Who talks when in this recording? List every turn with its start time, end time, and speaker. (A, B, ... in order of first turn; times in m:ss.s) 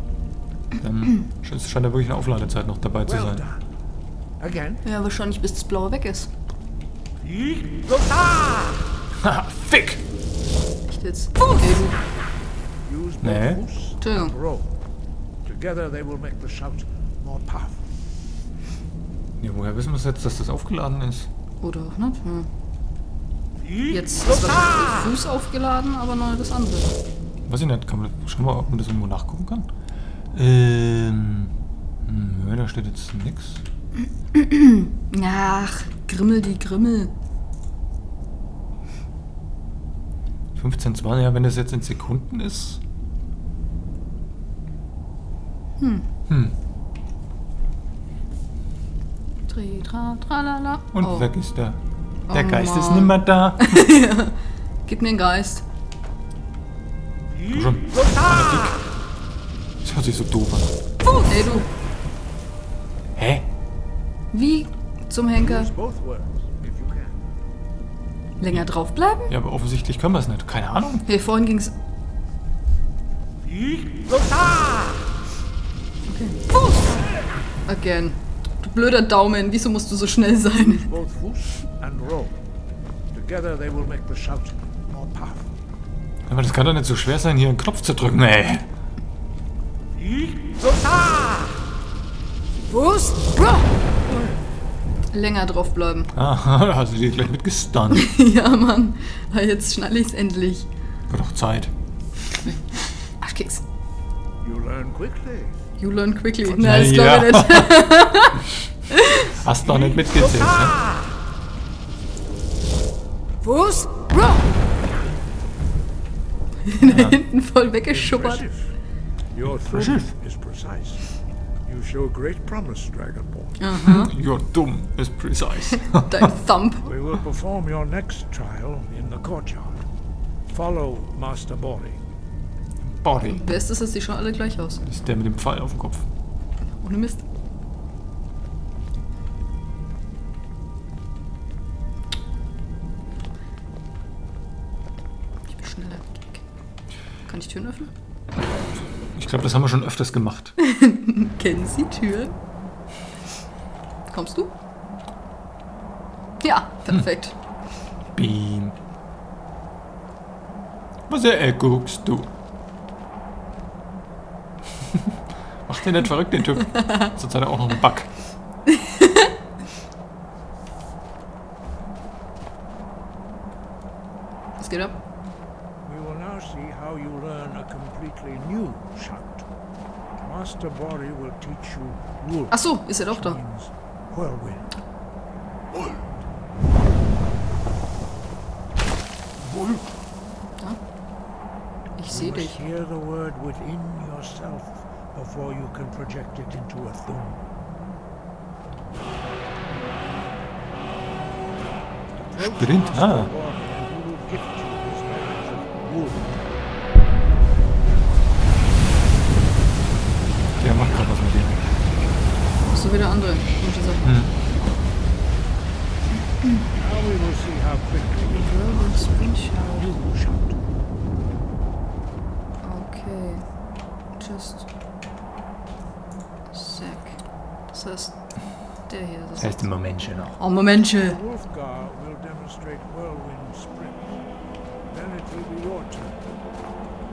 0:00.8-0:03.4 A
0:03.0-0:03.6 B
0:04.4-0:04.8 B
0:04.8-0:06.3 C
0:07.2-0:08.8 B
0:09.2-0:10.0 A
0:10.9-0:12.0 C
0:12.8-0:14.8 B
0:13.2-0:13.6 A
0:14.0-0:14.4 C
0:15.4-0:17.8 B
0:19.4-0:21.3 A
0:21.6-0:22.5 C
0:23.9-0:27.0 C
0:27.5-0:29.7 A
0:30.3-0:31.5 A
0:32.0-0:33.6 A
0:34.3-0:37.2 C
0:40.6-0:42.8 A
0:45.8-0:46.1 C
0:46.3-0:46.6 A
0:49.5-0:51.3 C
0:50.9-0:53.8 A
0:52.3-0:55.6 C
0:57.5-0:58.8 A
0:59.8-1:00.8 A
1:01.2-1:01.7 C
1:03.2-1:03.5 A
1:04.3-1:05.7 C
1:05.4-1:07.2 B
1:08.4-1:09.3 C
1:09.3-1:11.1 A
1:11.1-1:11.8 C
1:13.5-1:14.7 B
1:16.1-1:16.8 C
1:17.7-1:20.9 C
1:20.5-1:22.4 B
1:23.1-1:25.5 B
1:26.3-1:28.7 A
1:30.0-1:31.3 B
1:32.7-1:33.7 D
1:35.1-1:36.1 C
1:36.1-1:38.1 A
1:37.9-1:40.7 C
1:41.1-1:41.7 A
1:43.2-1:43.6 C
1:44.4-1:45.6 B
1:45.8-1:49.3 C
1:46.5-1:47.8 A
1:49.3-1:50.9 A
1:53.4-1:54.5 D
1:56.7-1:58.4 C
1:56.8-1:57.2 A
1:57.9-1:58.8 B
1:59.3-2:01.0 B
1:59.5-2:00.1 A
2:01.7-2:03.7 B
2:03.6-2:04.1 C
2:03.8-2:06.2 A
2:05.9-2:06.9 C
2:06.8-2:09.8 B
2:10.5-2:12.0 B
2:12.9-2:13.4 A
2:13.3-2:14.9 C
2:14.9-2:16.1 A
2:16.8-2:17.2 C
2:25.5-2:26.4 C
2:27.2-2:27.9 C
2:29.1-2:30.6 A
2:30.6-2:32.4 C
2:34.1-2:34.5 C
2:36.4-2:37.4 C
2:38.1-2:38.8 A
2:41.1-2:42.3 A
2:45.7-2:48.1 A
2:49.0-2:49.3 C
2:54.6-2:55.0 C
2:55.8-2:59.5 B
3:00.2-3:04.7 B
3:02.5-3:03.4 C
3:05.7-3:06.1 B
3:09.5-3:09.8 B
3:12.0-3:12.6 C
3:12.1-3:17.4 B
3:22.2-3:26.4 B
3:22.4-3:23.3 A
3:30.6-3:31.6 A
3:32.7-3:34.5 C
3:34.0-3:34.3 A
3:36.2-3:36.7 C
3:36.8-3:40.6 B
3:38.3-3:40.0 C
3:42.6-3:43.5 C
3:44.2-3:44.7 C
3:46.5-3:49.8 C
3:49.4-3:50.4 A
3:50.3-3:51.2 C
3:50.9-3:54.2 B
3:54.9-3:56.2 B